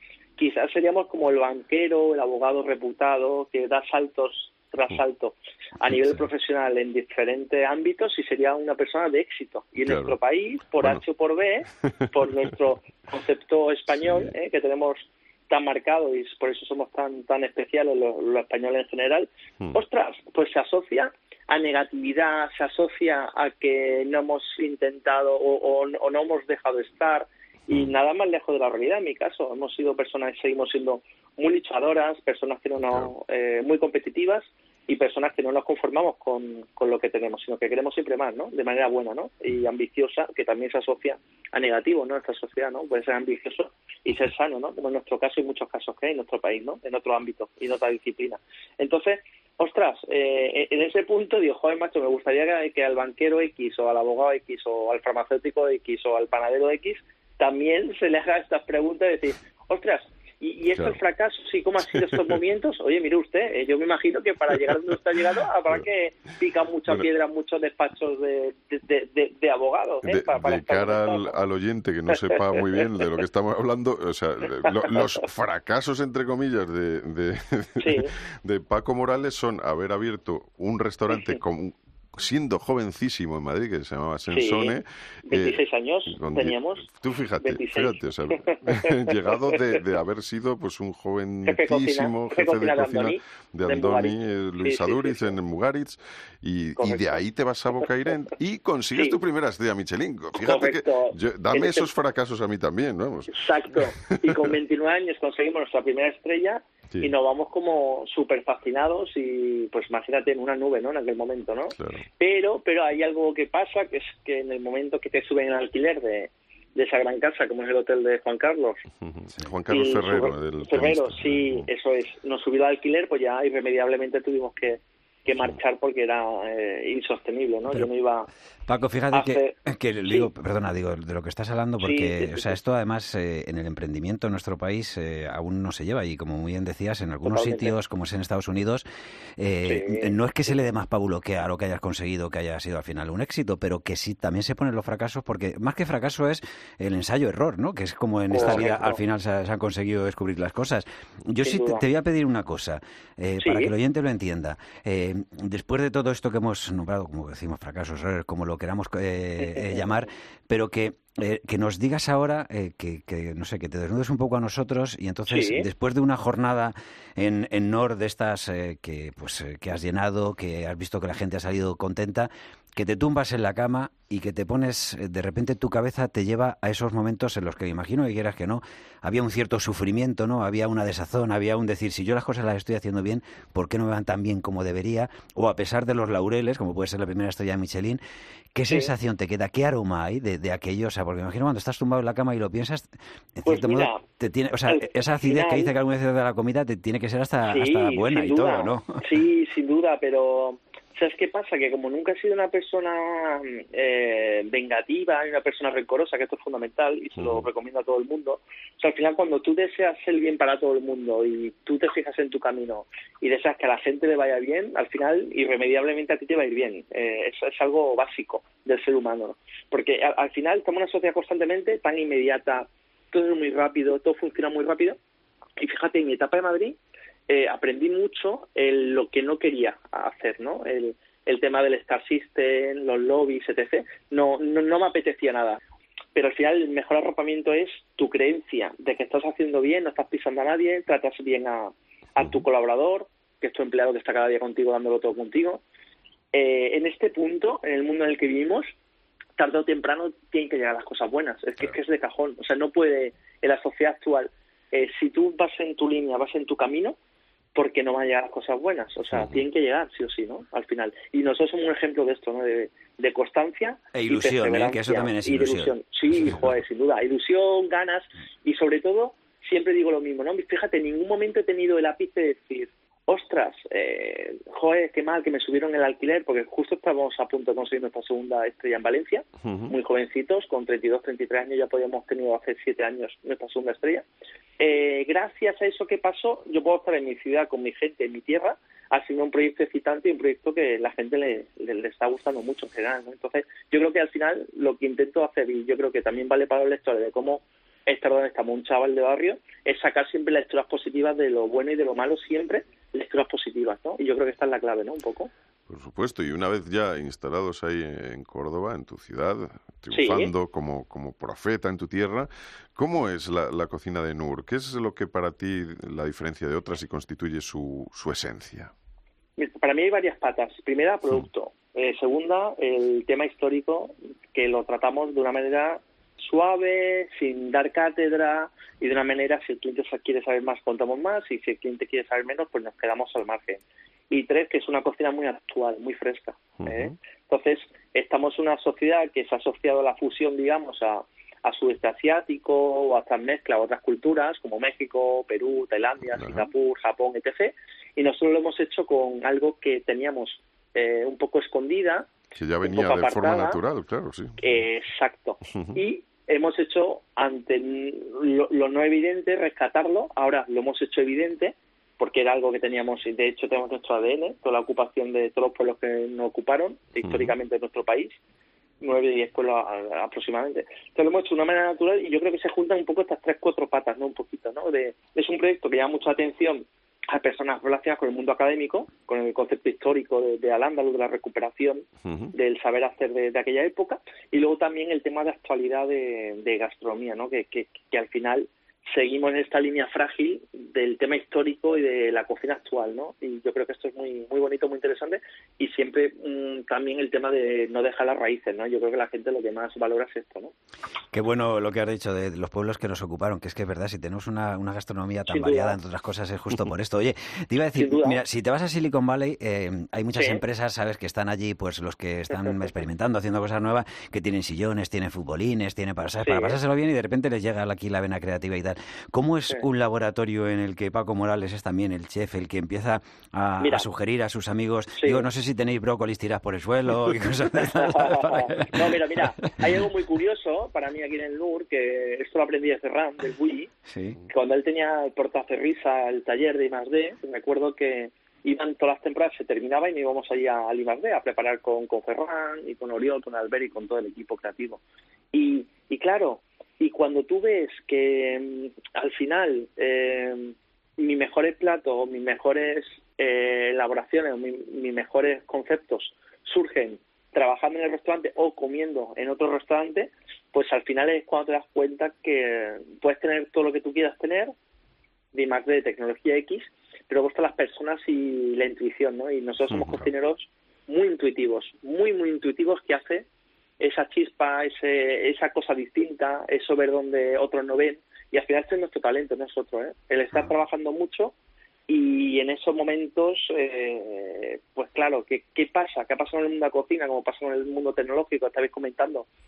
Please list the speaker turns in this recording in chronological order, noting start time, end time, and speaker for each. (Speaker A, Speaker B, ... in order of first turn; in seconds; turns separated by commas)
Speaker A: 0.4-71.4, Speaker B: 9.8-10.2, Speaker B: 70.0-104.5, Speaker A: 72.4-72.8, Speaker A: 74.6-75.1, Speaker A: 77.8-78.1, Speaker A: 84.3-86.9, Speaker A: 87.4-89.8, Speaker A: 91.4-95.4, Speaker A: 96.8-97.2, Speaker A: 100.4-101.9, Speaker A: 103.3-118.8, Speaker B: 111.7-112.0, Speaker B: 119.0-121.7, Speaker A: 119.7-128.3, Speaker C: 128.7-138.8, Speaker A: 129.1-130.3, Speaker A: 131.8-132.6, Speaker A: 137.2-137.8, Speaker C: 139.4-188.0, Speaker A: 139.6-140.1, Speaker A: 148.3-149.0, Speaker B: 148.4-148.7, Speaker A: 151.4-151.8, Speaker A: 153.4-153.7, Speaker A: 159.4-159.9, Speaker A: 165.3-165.7, Speaker C: 188.6-199.0, Speaker A: 193.5-194.0, Speaker A: 194.7-195.7, Speaker A: 197.5-225.0, Speaker B: 207.2-207.5, Speaker A: 225.6-226.8, Speaker A: 227.3-235.6, Speaker A: 236.2-245.6, Speaker A: 246.3-248.7, Speaker A: 249.4-257.0, Speaker A: 257.6-284.0, Speaker B: 259.1-259.4, Speaker C: 263.9-266.2, Speaker B: 279.4-279.8, Speaker A: 284.6-305.3, Speaker B: 305.7-318.7, Speaker A: 309.9-310.3, Speaker A: 319.4-352.1, Speaker B: 336.6-336.9, Speaker B: 346.1-346.5, Speaker B: 352.3-354.5, Speaker A: 352.6-353.6, Speaker A: 354.4-368.2, Speaker B: 355.5-355.8, Speaker B: 367.0-367.3, Speaker A: 368.8-400.5, Speaker B: 382.1-382.3, Speaker C: 401.1-428.8, Speaker A: 405.3-405.8, Speaker A: 407.8-408.2, Speaker A: 410.1-410.4, Speaker A: 416.2-416.6, Speaker A: 423.6-423.9, Speaker A: 425.0-425.2, Speaker A: 427.7-433.7, Speaker C: 433.9-434.2, Speaker A: 434.3-444.8, Speaker A: 445.3-464.5, Speaker A: 465.3-473.3, Speaker B: 469.7-470.1, Speaker A: 473.8-481.3, Speaker A: 481.9-489.3